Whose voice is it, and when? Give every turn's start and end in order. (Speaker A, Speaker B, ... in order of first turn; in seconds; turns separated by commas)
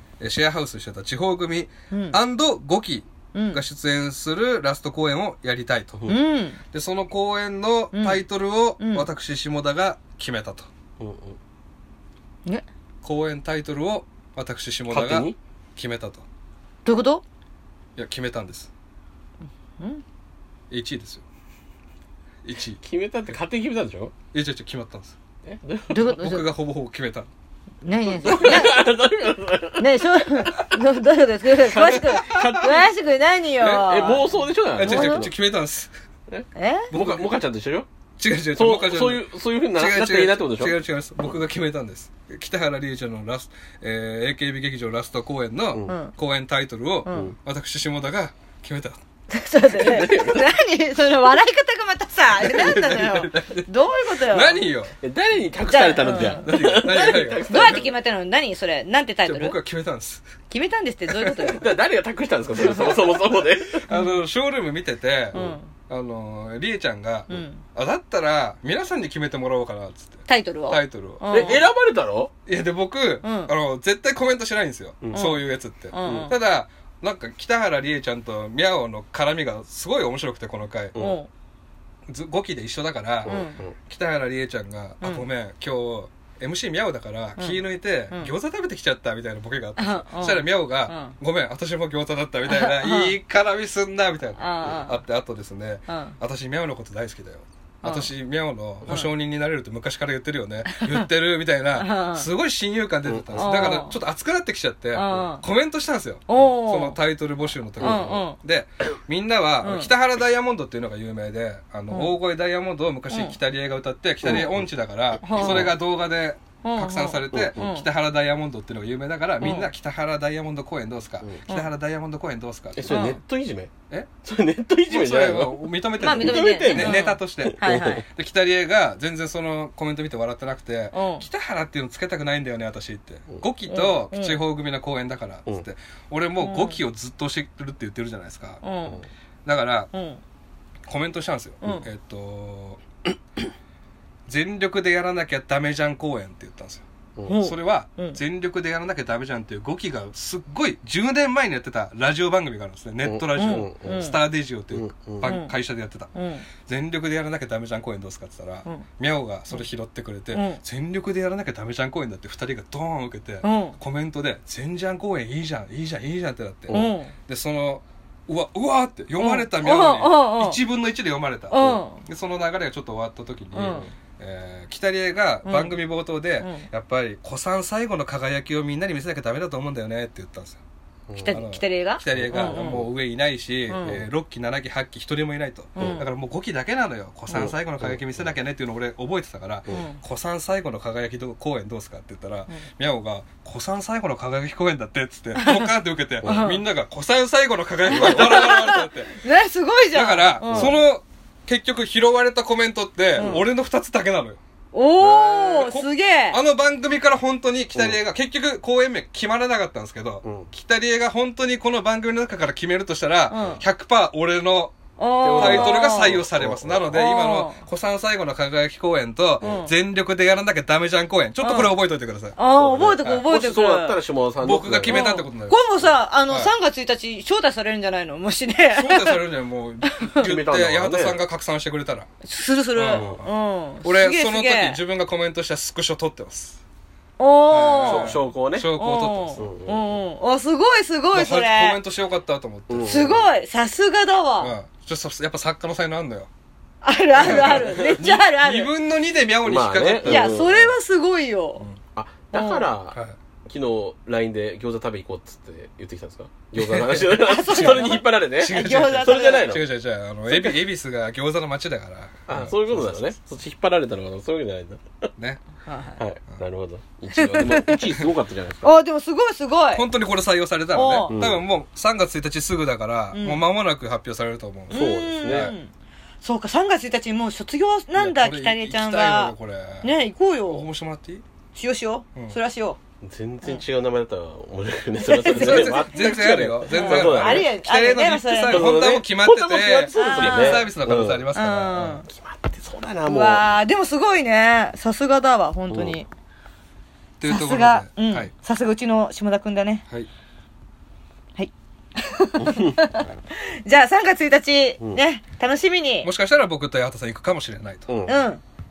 Speaker A: 0.2-6.1, Speaker B: 1.9-2.2, Speaker B: 3.3-3.6, Speaker B: 6.1-6.6, Speaker A: 6.7-10.7, Speaker B: 7.9-8.2, Speaker B: 8.8-9.1, Speaker C: 11.0-11.4, Speaker A: 13.0-16.2, Speaker C: 14.9-15.4, Speaker B: 16.9-17.2, Speaker A: 18.0-18.7, Speaker A: 20.7-21.2, Speaker A: 22.4-22.8, Speaker C: 22.8-24.1, Speaker A: 24.3-25.2, Speaker C: 25.4-26.2, Speaker B: 25.9-26.5, Speaker A: 26.0-27.3, Speaker B: 27.8-35.3, Speaker C: 28.0-30.0, Speaker A: 31.7-32.7, Speaker C: 31.8-32.9, Speaker A: 33.6-33.9, Speaker C: 33.6-35.3, Speaker A: 34.8-35.9, Speaker C: 36.3-37.9, Speaker B: 36.5-36.9, Speaker A: 36.9-37.3, Speaker A: 38.2-49.0, Speaker C: 38.5-40.8, Speaker B: 45.9-46.1, Speaker B: 47.0-47.4, Speaker C: 47.1-47.4, Speaker B: 49.3-54.7, Speaker C: 49.7-50.5, Speaker A: 52.4-54.9, Speaker C: 55.0-58.0, Speaker B: 55.7-59.6, Speaker A: 56.1-57.9, Speaker A: 59.3-60.2, Speaker B: 60.5-61.7, Speaker C: 61.4-63.9, Speaker B: 62.6-63.0, Speaker A: 62.7-63.2, Speaker A: 63.8-71.6, Speaker B: 63.9-64.2, Speaker B: 65.3-65.7, Speaker B: 67.3-67.6, Speaker B: 70.3-71.7, Speaker C: 71.3-72.3, Speaker A: 72.5-81.0, Speaker B: 73.2-73.5, Speaker C: 75.0-75.3, Speaker B: 75.1-75.4, Speaker B: 75.9-76.3, Speaker C: 76.0-76.3, Speaker C: 80.9-81.2, Speaker B: 81.0-81.3, Speaker A: 82.1-123.1, Speaker C: 83.2-83.8, Speaker B: 83.3-83.6, Speaker B: 87.4-88.3, Speaker B: 89.8-91.2, Speaker B: 92.5-93.1, Speaker B: 94.4-95.0, Speaker B: 95.9-96.2, Speaker B: 97.8-98.1, Speaker B: 100.7-101.0, Speaker B: 101.8-102.3, Speaker C: 103.0-103.8, Speaker B: 103.4-104.0, Speaker B: 105.0-105.4, Speaker B: 106.3-107.0, Speaker C: 107.8-108.2, Speaker B: 107.8-108.4, Speaker B: 109.6-109.9, Speaker B: 111.9-112.2, Speaker B: 113.1-113.4, Speaker C: 114.2-114.7, Speaker B: 115.2-115.7, Speaker C: 115.3-115.7, Speaker B: 116.6-117.9, Speaker C: 117.3-117.8, Speaker B: 119.4-119.7, Speaker C: 122.8-128.0, Speaker B: 122.9-123.2, Speaker A: 124.9-138.6, Speaker B: 126.0-128.1, Speaker B: 130.9-131.2, Speaker B: 133.7-134.4, Speaker B: 136.4-136.8, Speaker B: 138.6-139.0, Speaker A: 139.4-139.9, Speaker B: 139.9-140.2, Speaker A: 140.9-142.8, Speaker B: 141.6-141.9, Speaker A: 144.3-156.1, Speaker B: 147.3-148.2, Speaker C: 153.0-154.1, Speaker B: 153.3-154.2, Speaker C: 154.7-155.3, Speaker B: 155.2-155.5, Speaker B: 156.2-156.5, Speaker A: 156.7-180.6, Speaker B: 160.3-160.6, Speaker B: 163.4-163.8, Speaker C: 166.7-167.0, Speaker B: 166.7-167.1, Speaker B: 169.2-170.6, Speaker B: 171.5-172.0, Speaker B: 173.5-173.9, Speaker B: 175.4-175.8, Speaker B: 176.4-176.7, Speaker C: 181.1-181.4, Speaker B: 181.2-182.8, Speaker A: 181.3-199.2, Speaker C: 182.1-182.9, Speaker B: 183.7-184.0, Speaker C: 183.8-184.1, Speaker B: 185.8-186.0, Speaker C: 185.8-186.1, Speaker C: 187.3-188.3, Speaker B: 189.7-190.0, Speaker B: 195.4-195.7, Speaker B: 196.2-196.6, Speaker B: 197.9-200.8, Speaker A: 199.9-204.4, Speaker C: 200.5-200.8, Speaker B: 203.2-203.4, Speaker C: 203.2-203.4, Speaker B: 204.7-206.4, Speaker A: 205.0-222.4, Speaker C: 207.7-208.0, Speaker C: 210.2-210.5, Speaker B: 213.3-213.6, Speaker C: 213.3-213.6, Speaker B: 215.0-216.2, Speaker C: 215.2-217.0, Speaker B: 216.9-217.6, Speaker C: 219.4-219.7, Speaker B: 219.4-219.7, Speaker B: 221.4-221.7, Speaker B: 222.4-224.0, Speaker C: 222.5-225.0, Speaker A: 223.0-223.3, Speaker A: 224.4-225.6, Speaker B: 224.9-229.2, Speaker A: 228.7-232.1, Speaker B: 229.8-230.3, Speaker C: 230.2-231.2, Speaker B: 232.2-234.8, Speaker A: 232.8-233.3, Speaker C: 232.9-233.2, Speaker A: 233.8-236.6, Speaker B: 237.2-238.2, Speaker A: 237.5-239.5, Speaker C: 237.8-238.7, Speaker B: 238.7-241.8, Speaker C: 239.4-239.9, Speaker A: 241.1-243.2, Speaker C: 242.7-243.2, Speaker B: 242.8-244.5, Speaker A: 244.4-246.3, Speaker B: 246.8-248.7, Speaker A: 247.2-250.5, Speaker C: 247.2-248.0, Speaker C: 249.4-250.7, Speaker B: 250.0-251.7, Speaker C: 251.9-259.7, Speaker B: 252.3-252.7, Speaker A: 252.9-253.2, Speaker A: 256.6-263.1, Speaker B: 257.0-259.6, Speaker C: 260.3-260.6, Speaker C: 262.3-265.1, Speaker A: 265.2-265.4, Speaker B: 265.6-266.0, Speaker C: 266.0-268.7, Speaker B: 267.1-267.9, Speaker B: 268.6-269.9, Speaker A: 269.7-275.6, Speaker B: 270.7-271.1, Speaker C: 271.1-271.4, Speaker B: 273.1-273.4, Speaker C: 274.7-275.5, Speaker B: 274.7-275.7, Speaker B: 276.2-280.7, Speaker A: 277.9-279.9, Speaker A: 280.5-281.2, Speaker B: 281.6-282.8, Speaker C: 283.0-287.5, Speaker B: 285.0-286.1, Speaker A: 285.3-292.0, Speaker B: 286.7-288.7, Speaker C: 288.5-291.3, Speaker B: 289.9-290.7, Speaker B: 291.3-292.1, Speaker C: 292.1-293.4, Speaker B: 293.1-296.1, Speaker C: 295.7-296.0, Speaker A: 297.2-298.3, Speaker B: 297.3-299.9, Speaker B: 301.4-306.1, Speaker C: 302.4-302.8, Speaker A: 306.0-307.9, Speaker C: 307.9-308.3, Speaker B: 308.1-308.4